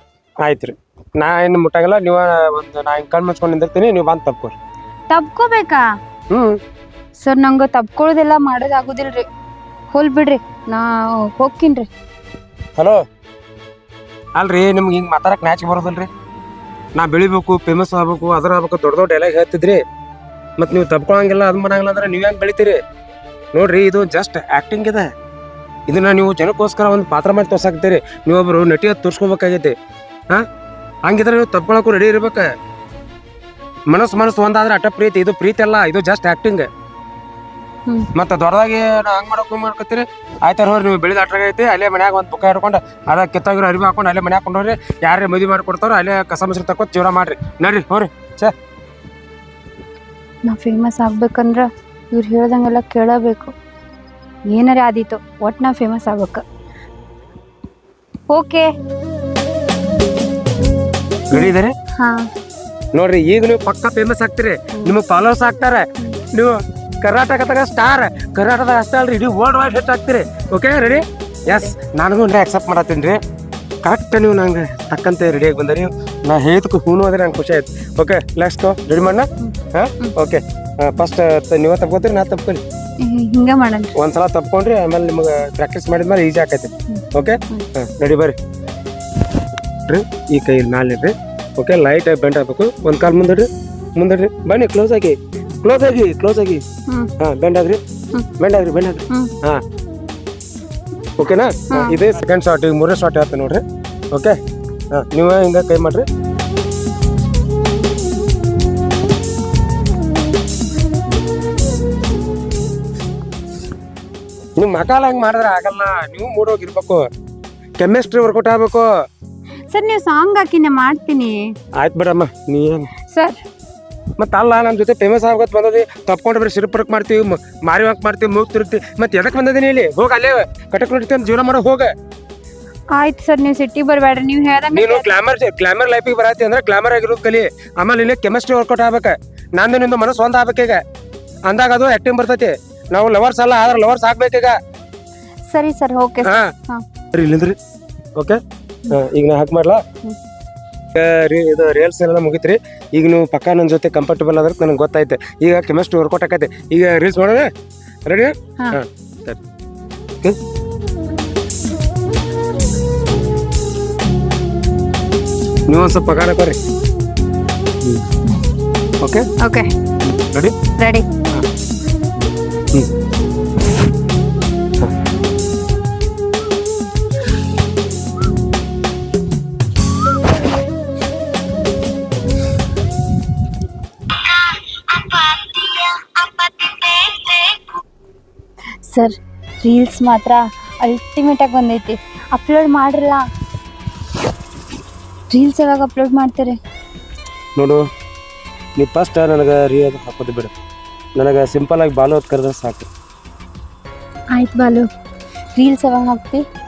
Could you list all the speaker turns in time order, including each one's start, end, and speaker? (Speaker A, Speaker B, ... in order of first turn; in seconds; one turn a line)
Speaker A: 0.4-4.5
Speaker B: 5.1-5.8
Speaker A: 6.3-6.6
Speaker B: 7.2-9.2
Speaker B: 9.9-11.9
Speaker A: 14.3-16.1
Speaker A: 16.9-19.8
Speaker A: 20.6-22.8
Speaker A: 23.5-25.1
Speaker A: 25.9-29.7
Speaker A: 31.0-32.5
Speaker A: 33.9-36.7
Speaker A: 38.1-48.5
Speaker B: 50.5-53.5
Speaker B: 54.5-56.4
Speaker B: 58.3-58.7
Speaker A: 61.3-61.7
Speaker B: 61.3-62.3
Speaker A: 62.9-73.2
Speaker A: 73.8-82.6
Speaker B: 79.4-80.1
Speaker B: 83.0-83.9
Speaker A: 84.0-88.3
Speaker B: 86.9-87.7
Speaker A: 89.9-96.6
Speaker A: 97.2-97.8
Speaker A: 98.4-99.6
Speaker A: 101.2-104.4
Speaker B: 101.7-102.0
Speaker A: 104.9-106.0
Speaker A: 114.5-117.1
Speaker A: 117.8-118.9
Speaker B: 119.7-121.5
Speaker A: 121.8-122.9
Speaker B: 123.1-123.4
Speaker A: 124.2-131.9
Speaker B: 132.9-135.1
Speaker A: 134.7-140.8
Speaker A: 141.4-144.6
Speaker B: 145.5-146.8
Speaker A: 146.2-146.5
Speaker A: 147.1-147.6
Speaker A: 148.9-149.8
Speaker A: 150.9-157.5
Speaker A: 158.1-159.4
Speaker A: 165.7-166.6
Speaker A: 169.0-169.2
Speaker B: 169.4-169.7
Speaker A: 170.0-170.5
Speaker B: 170.8-171.1
Speaker B: 184.1-187.7
Speaker B: 188.8-193.2
Speaker B: 195.3-196.6
Speaker A: 197.6-197.8
Speaker A: 198.8-200.5
Speaker A: 201.2-202.9
Speaker B: 204.3-204.9
Speaker B: 205.5-206.4